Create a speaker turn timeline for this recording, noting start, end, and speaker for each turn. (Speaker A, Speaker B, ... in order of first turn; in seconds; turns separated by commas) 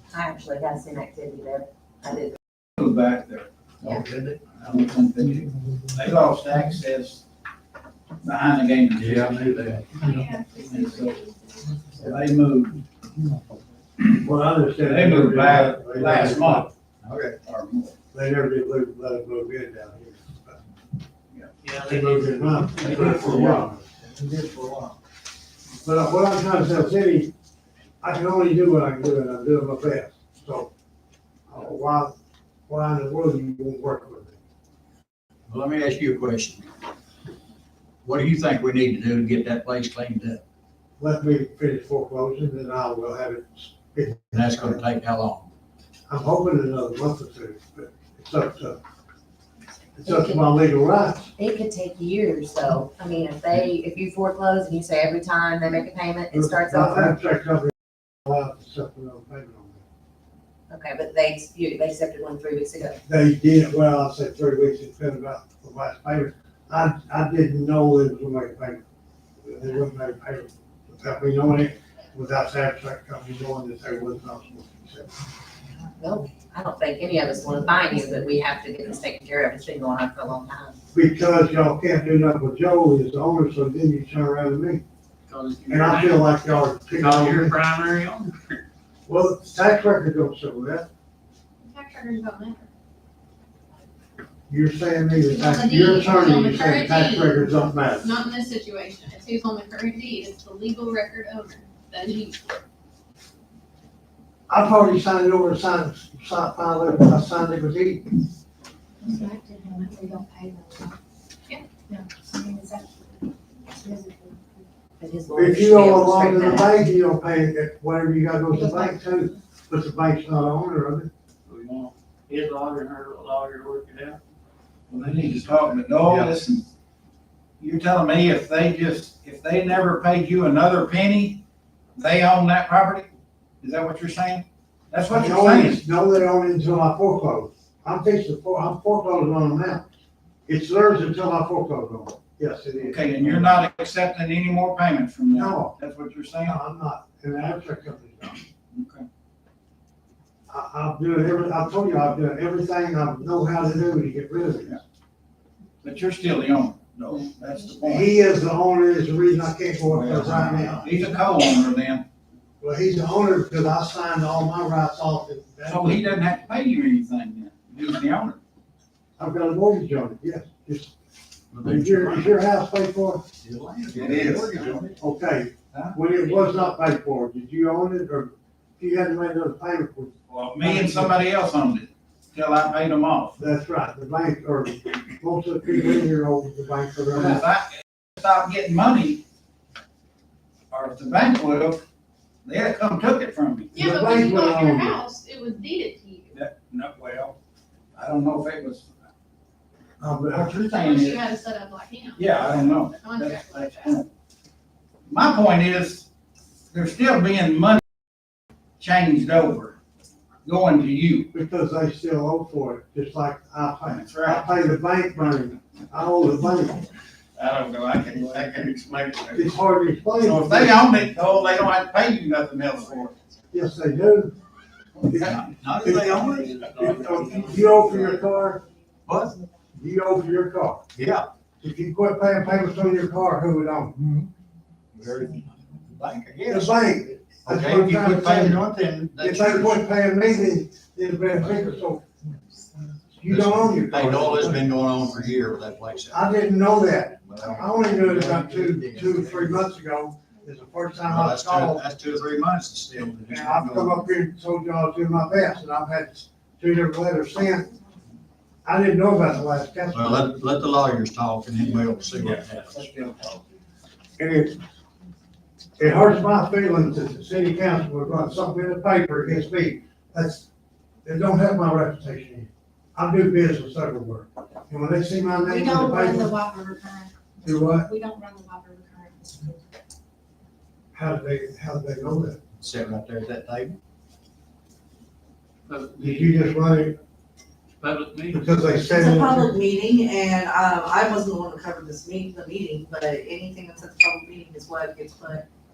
Speaker A: 0.1-2.4, Speaker B: 2.8-3.5, Speaker C: 4.0-4.4, Speaker B: 4.5-7.2, Speaker B: 8.2-9.8, Speaker C: 9.0-10.2, Speaker D: 10.0-11.9, Speaker B: 10.6-11.2, Speaker B: 12.0-12.8, Speaker E: 14.1-16.7, Speaker B: 14.8-16.7, Speaker C: 17.0-17.4, Speaker B: 17.4-17.9, Speaker E: 18.1-20.6, Speaker F: 21.6-23.7, Speaker E: 21.8-23.9, Speaker E: 25.8-27.3, Speaker E: 28.0-30.7, Speaker E: 31.5-32.2, Speaker E: 32.7-34.4, Speaker C: 35.5-36.7, Speaker C: 38.0-40.4, Speaker E: 41.0-44.8, Speaker C: 44.3-45.5, Speaker E: 46.1-48.8, Speaker E: 50.0-51.3, Speaker A: 50.0-50.6, Speaker A: 51.4-57.1, Speaker E: 56.3-59.8, Speaker A: 60.7-63.0, Speaker E: 63.1-68.8, Speaker E: 69.4-75.1, Speaker A: 76.0-80.8, Speaker E: 80.9-84.8, Speaker F: 85.3-86.3, Speaker E: 85.7-87.6, Speaker F: 87.0-88.6, Speaker E: 89.1-90.9, Speaker D: 91.6-92.7, Speaker E: 94.5-98.1, Speaker D: 95.2-102.5, Speaker E: 104.5-108.2, Speaker G: 109.0-111.0, Speaker G: 112.4-112.9, Speaker A: 115.0-116.8, Speaker E: 115.3-121.1, Speaker F: 121.5-124.2, Speaker B: 124.9-126.7, Speaker C: 126.0-126.3, Speaker B: 127.6-131.4, Speaker B: 132.0-133.1, Speaker B: 133.6-135.8, Speaker E: 135.1-139.9, Speaker E: 140.5-143.6, Speaker B: 142.8-146.6, Speaker E: 145.3-145.8, Speaker E: 146.4-148.4, Speaker B: 148.7-149.1, Speaker E: 150.5-154.8, Speaker B: 155.8-158.2, Speaker E: 157.9-160.9, Speaker B: 159.9-162.0, Speaker E: 162.6-166.3, Speaker B: 165.7-168.4, Speaker E: 169.2-171.0, Speaker C: 171.5-172.4, Speaker E: 171.6-173.2, Speaker C: 173.4-174.9, Speaker B: 173.9-174.9, Speaker E: 175.0-181.1, Speaker B: 175.7-176.0, Speaker B: 180.3-183.4, Speaker E: 183.4-187.4, Speaker B: 187.1-189.2, Speaker B: 190.7-191.8, Speaker B: 192.4-193.8, Speaker D: 193.7-196.4, Speaker E: 193.8-195.0, Speaker B: 196.3-197.4, Speaker B: 198.0-198.9, Speaker E: 200.0-200.6, Speaker B: 200.3-201.3, Speaker D: 200.7-204.0, Speaker B: 202.2-204.1, Speaker B: 205.1-206.1, Speaker B: 206.7-207.8, Speaker B: 208.8-209.8, Speaker B: 210.4-211.3, Speaker E: 211.3-216.9, Speaker B: 213.8-214.6, Speaker B: 217.4-219.4, Speaker F: 218.0-218.7, Speaker E: 219.3-220.8, Speaker B: 220.2-223.2, Speaker E: 223.5-224.3, Speaker B: 225.0-225.5, Speaker E: 225.1-228.6, Speaker C: 225.2-226.7, Speaker F: 226.3-228.2, Speaker C: 229.1-229.4, Speaker E: 229.8-230.8, Speaker C: 230.9-231.3, Speaker E: 231.6-234.0, Speaker C: 234.9-236.5, Speaker B: 236.0-236.7, Speaker E: 236.5-242.0, Speaker C: 237.5-239.8, Speaker B: 238.0-238.3, Speaker E: 243.2-244.7, Speaker C: 243.3-246.3, Speaker E: 246.1-251.8, Speaker C: 247.3-249.7, Speaker C: 251.1-254.0, Speaker E: 253.2-257.7, Speaker E: 258.6-260.4, Speaker C: 259.9-262.8, Speaker B: 262.3-263.4, Speaker E: 264.2-264.6, Speaker E: 265.8-270.5, Speaker E: 271.0-276.4, Speaker G: 275.5-277.1, Speaker E: 277.4-277.9, Speaker G: 277.8-279.6, Speaker E: 280.9-282.4, Speaker C: 282.6-283.8, Speaker F: 285.7-286.4, Speaker E: 286.0-287.0, Speaker F: 287.8-288.4, Speaker E: 288.3-289.5, Speaker H: 288.9-295.4